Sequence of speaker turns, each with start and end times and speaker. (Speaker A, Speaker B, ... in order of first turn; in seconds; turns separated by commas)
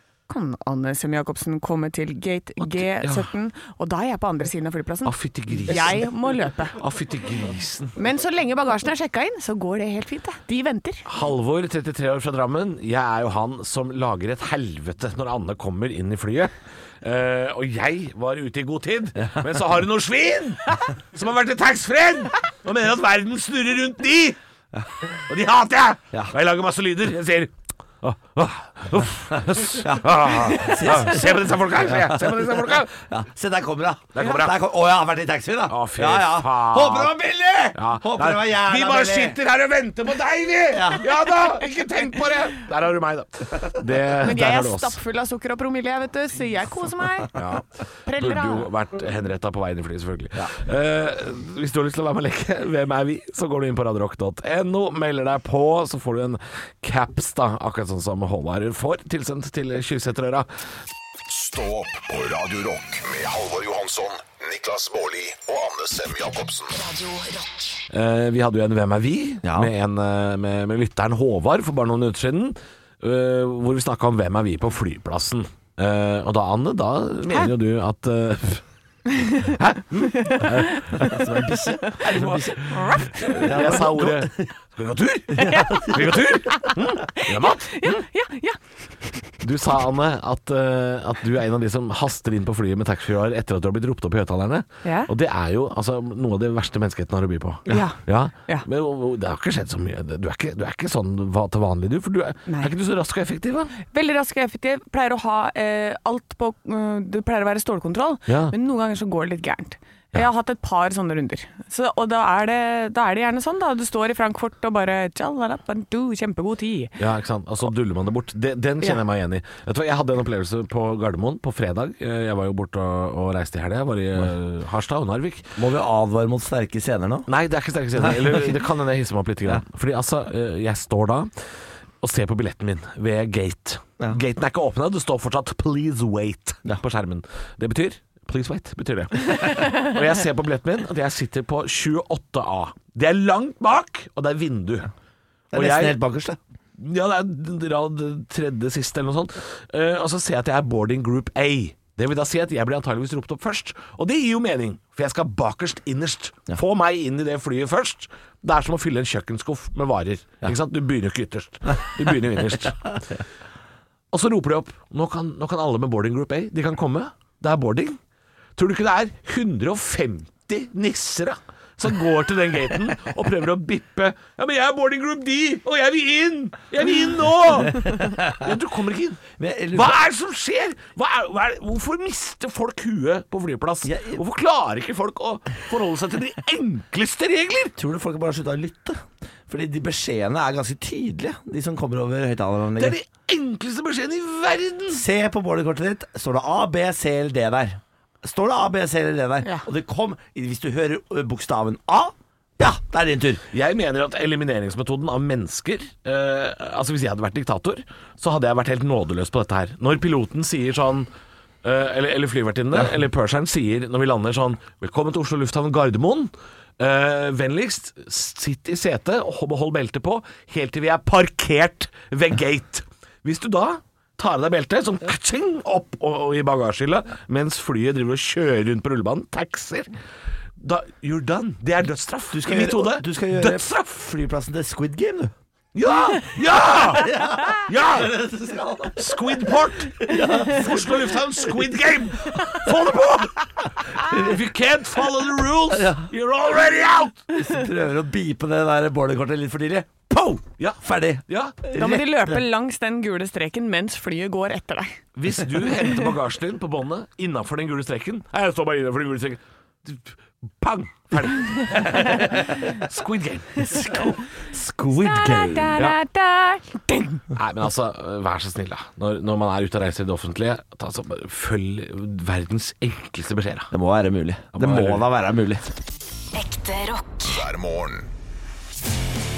Speaker A: 0.3-6.8, Speaker B: 2.6-3.3, Speaker B: 5.0-6.1, Speaker B: 6.8-8.0, Speaker A: 8.0-11.0, Speaker B: 11.1-24.4, Speaker B: 25.3-32.9, Speaker C: 29.7-39.4, Speaker B: 34.1-34.5, Speaker B: 35.7-37.1, Speaker B: 37.7-45.0, Speaker C: 40.7-41.0, Speaker A: 44.2-47.3, Speaker B: 47.3-60.5, Speaker A: 48.0-48.6, Speaker D: 61.3-66.8, Speaker E: 66.7-67.8, Speaker B: 67.9-78.6, Speaker C: 69.4-69.7, Speaker A: 79.2-79.5, Speaker B: 79.4-81.1, Speaker A: 80.0-80.8, Speaker C: 80.9-84.5, Speaker A: 81.9-83.8, Speaker B: 82.0-82.5, Speaker B: 83.2-88.0, Speaker C: 85.3-86.3, Speaker A: 85.4-88.6, Speaker B: 89.4-103.7, Speaker A: 94.8-95.1, Speaker A: 97.7-98.6, Speaker A: 102.5-102.7, Speaker A: 103.8-116.9, Speaker B: 108.2-108.5, Speaker B: 117.0-125.5, Speaker C: 125.6-127.3, Speaker B: 127.3-131.3, Speaker C: 128.0-128.4, Speaker B: 132.0-144.9, Speaker C: 145.5-146.4, Speaker B: 145.5-146.0, Speaker B: 146.8-163.2, Speaker B: 164.1-168.0, Speaker B: 168.6-187.7, Speaker C: 177.8-178.1, Speaker C: 179.4-180.0, Speaker C: 183.8-184.2, Speaker C: 187.8-192.9, Speaker B: 192.8-195.0, Speaker C: 194.9-203.4, Speaker B: 203.5-211.1, Speaker B: 211.6-229.9, Speaker B: 230.6-234.0, Speaker C: 232.3-235.3, Speaker B: 235.7-238.2, Speaker C: 236.7-241.1, Speaker B: 238.9-247.2, Speaker C: 242.3-243.0, Speaker C: 244.0-244.4, Speaker C: 245.7-246.1, Speaker C: 247.3-252.4, Speaker B: 250.6-251.6, Speaker A: 251.7-255.0, Speaker B: 255.2-263.9, Speaker A: 261.9-262.3, Speaker A: 263.7-264.1, Speaker C: 264.0-265.9, Speaker A: 264.9-267.2, Speaker B: 267.3-273.7, Speaker C: 273.7-275.7, Speaker B: 274.5-275.1, Speaker E: 276.3-277.4, Speaker D: 277.2-278.1